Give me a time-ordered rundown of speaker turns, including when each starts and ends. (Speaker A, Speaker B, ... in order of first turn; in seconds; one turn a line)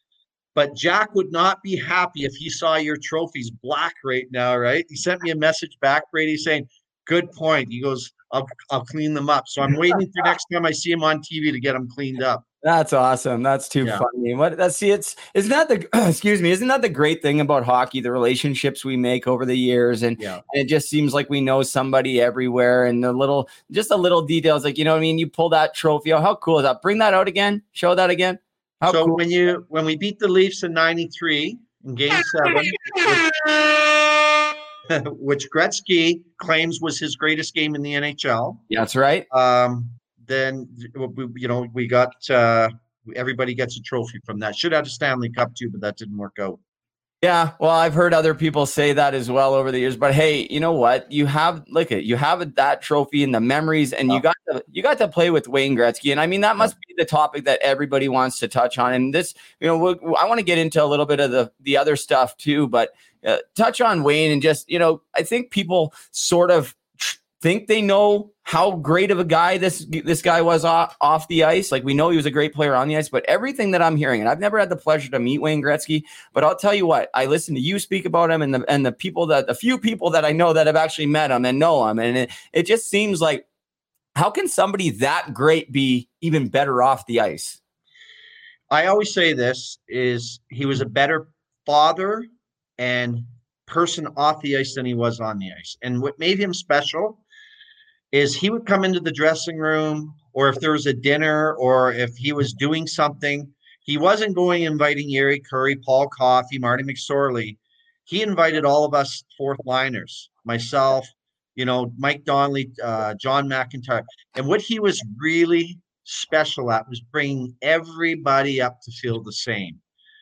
Speaker A: 0.6-12.4
Speaker B: 12.6-29.2
Speaker A: 28.9-33.2
Speaker A: 34.9-38.6
Speaker B: 38.7-39.2
Speaker A: 39.3-46.6
Speaker B: 47.2-83.4
Speaker B: 84.2-87.6
Speaker A: 88.7-92.3
Speaker A: 92.8-97.2
Speaker A: 98.1-119.8